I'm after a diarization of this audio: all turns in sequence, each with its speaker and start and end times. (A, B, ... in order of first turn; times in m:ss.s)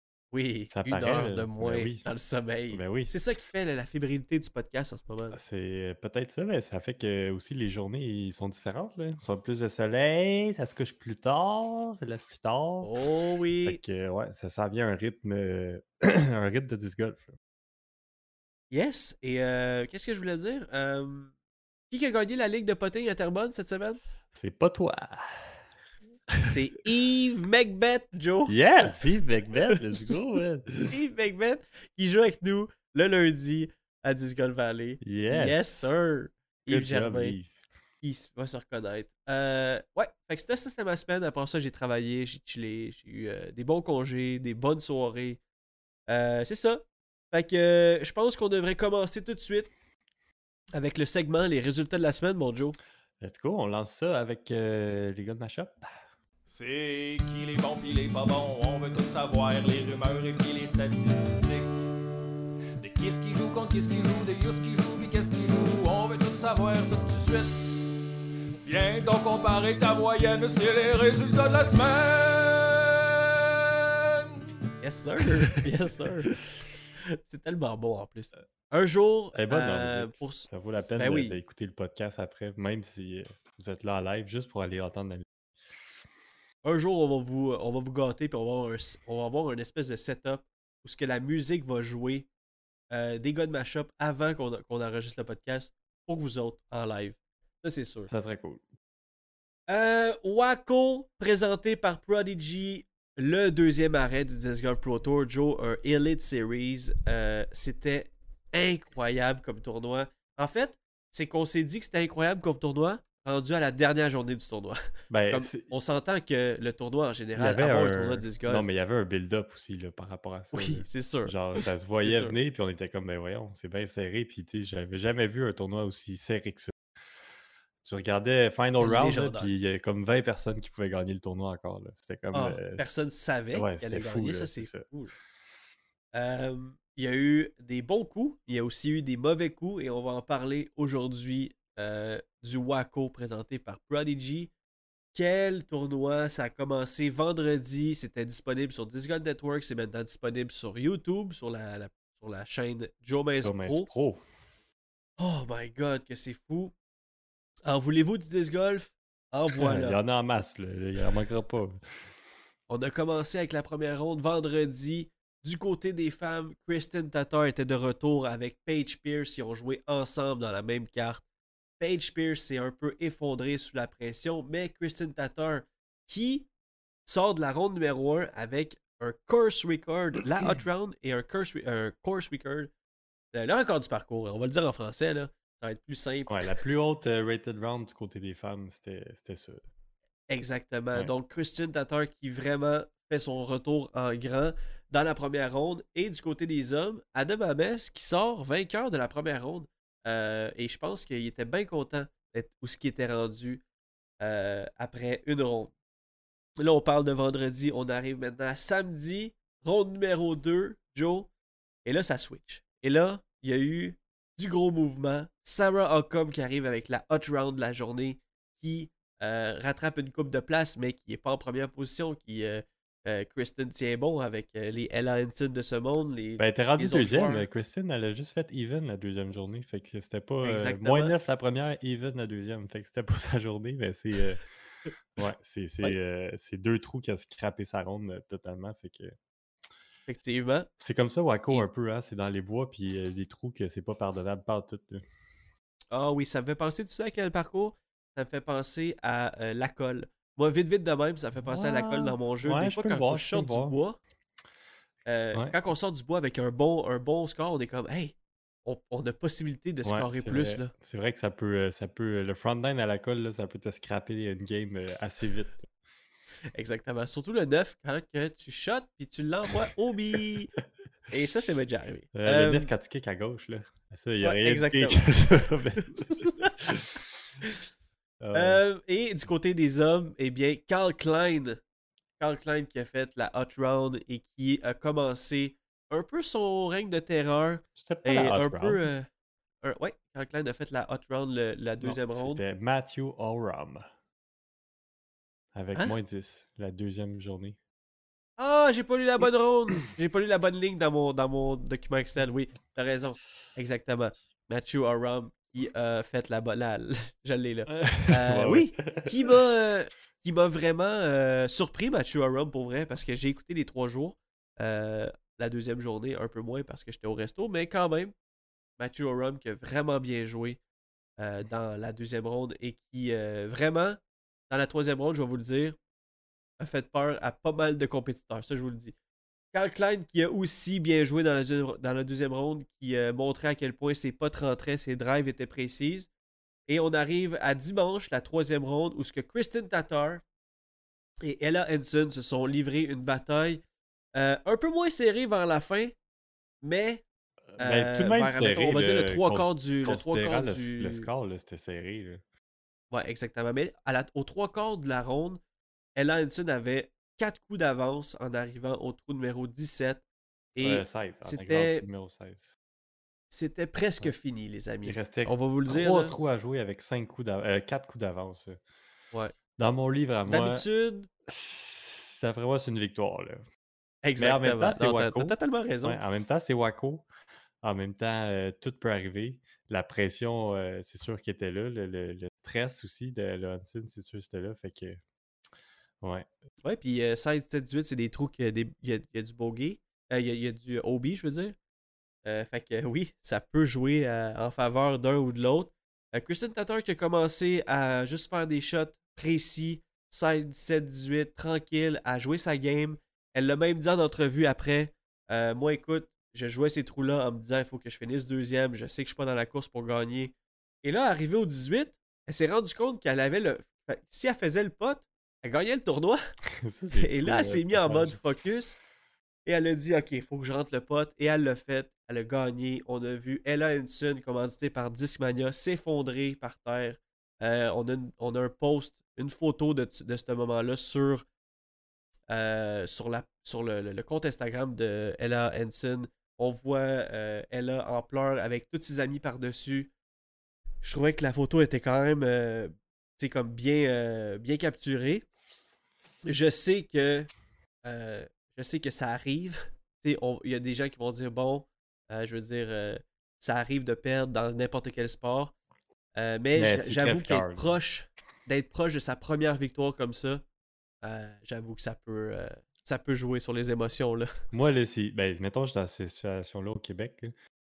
0:00.3-0:05.4 A
0:00.7-0:02.0 B
0:02.7-0:03.1 B
0:05.3-0:12.9 B
0:12.8-0:13.8 A
0:13.7-0:17.4 B
0:18.7-0:21.3 A
0:21.9-0:24.0 A
0:24.3-0:25.6 B
0:26.4-0:29.0 A
0:28.5-0:30.9 B
0:30.9-0:37.4 A
0:35.0-0:35.9 B
0:36.7-0:37.6 B
0:38.0-0:45.4 A
0:46.1-0:49.7 A
0:50.7-0:52.8 A
0:53.2-0:55.9 B
0:56.5-1:01.8 C
1:02.8-1:07.6 C
1:08.6-1:14.4 C
1:14.8-1:16.3 A
1:17.0-1:21.4 A
1:19.3-1:25.3 B
1:26.6-1:32.3 A
1:32.9-1:38.1 A
1:38.1-1:38.6 B
1:39.7-1:54.8 A
1:55.1-1:55.7 B
1:55.3-1:58.7 A
1:57.4-2:06.8 B
2:00.5-2:02.4 A
2:07.8-2:12.8 B
2:08.8-2:09.5 A
2:12.3-2:15.1 A
2:13.5-2:14.9 B
2:16.1-2:24.5 A
2:25.1-2:33.9 A
2:33.4-2:34.2 B
2:35.2-2:36.7 A
2:37.7-2:40.0 A
2:39.6-2:41.8 B
2:42.7-2:51.2 A
2:51.8-2:56.5 A
2:57.0-3:02.7 A
3:03.3-3:06.4 A
3:06.3-3:09.6 B
3:10.3-3:23.6 A
3:24.2-3:25.7 A
3:26.6-3:31.3 A
3:31.8-3:47.5 A
3:46.4-3:54.5 B
3:50.4-3:51.1 A
3:55.2-3:59.2 B
4:00.1-4:00.7 A
4:00.8-4:05.0 B
4:05.9-4:14.0 A
4:11.5-4:13.8 B
4:15.1-4:20.7 A
4:19.8-4:25.7 B
4:26.6-4:30.5 A
4:31.1-4:32.7 A
4:32.1-4:37.1 B
4:34.2-4:35.2 A
4:36.1-4:36.5 A
4:38.2-4:38.6 B
4:38.3-4:41.6 A
4:42.2-4:49.1 A
4:47.8-4:48.8 B
4:49.6-4:52.4 A
4:51.8-4:53.9 B
4:55.5-4:57.6 B
4:58.4-5:18.1 A
5:07.7-5:09.4 B
5:18.8-5:20.6 A
5:21.2-5:25.8 A
5:26.6-5:29.0 A
5:29.5-5:36.1 A
5:36.7-5:40.2 A
5:41.2-5:43.6 A
5:44.2-5:46.0 A
5:46.6-5:47.0 A
5:47.5-5:52.2 B
5:47.6-5:51.1 A
5:52.9-5:55.4 A
5:56.0-6:00.0 A
6:00.6-6:01.8 A
6:00.6-6:02.6 B
6:03.3-6:06.2 A
6:04.8-6:08.6 B
6:09.6-6:10.6 B
6:10.3-6:11.1 A
6:11.3-6:13.4 B
6:14.0-6:16.0 A
6:14.2-6:17.0 B
6:17.6-6:25.0 B
6:26.0-6:26.3 B
6:26.6-6:31.6 A
6:32.2-6:56.2 A
6:56.6-6:58.2 B
6:57.0-6:58.8 A
6:59.5-7:11.2 A
7:12.3-7:19.9 A
7:20.8-7:25.3 A
7:26.2-7:27.3 A
7:27.8-7:35.5 A
7:36.2-7:40.4 A
7:36.6-7:37.8 B
7:41.0-7:44.3 A
7:44.5-7:47.3 B